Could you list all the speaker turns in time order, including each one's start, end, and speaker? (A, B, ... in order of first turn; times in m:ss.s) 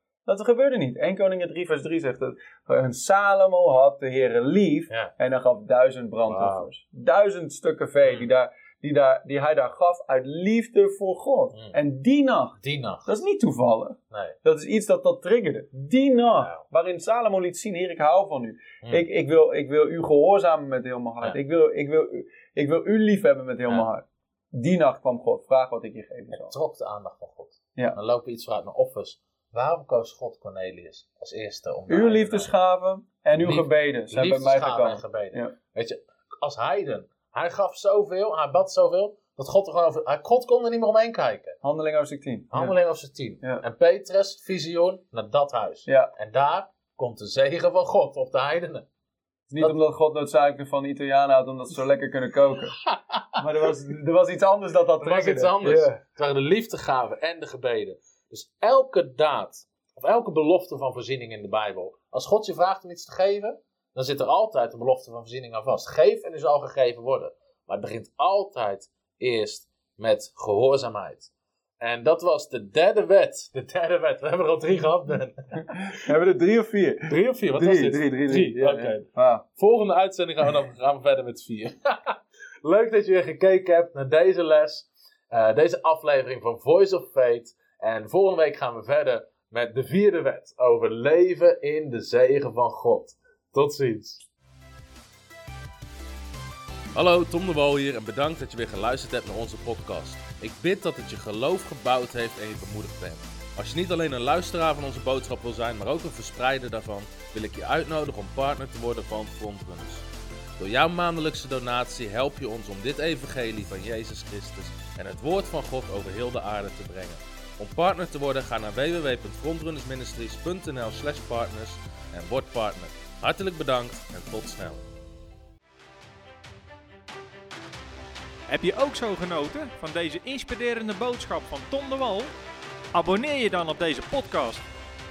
0:00.2-0:26.5 A
0:06.3-0:06.7 B
0:12.6-0:13.1 B
0:26.3-0:32.5 B
0:31.9-0:35.5 A
0:33.4-0:41.6 B
0:41.6-0:42.7 A
0:42.5-0:48.8 B
0:49.5-0:52.8 A
0:52.8-0:53.4 B
0:53.4-0:56.0 A
0:55.0-1:15.9 B
1:15.9-1:19.4 A
1:17.1-1:34.2 B
1:36.9-1:50.0 B
1:50.6-2:04.8 B
2:08.5-2:12.3 C
2:12.9-2:14.6 C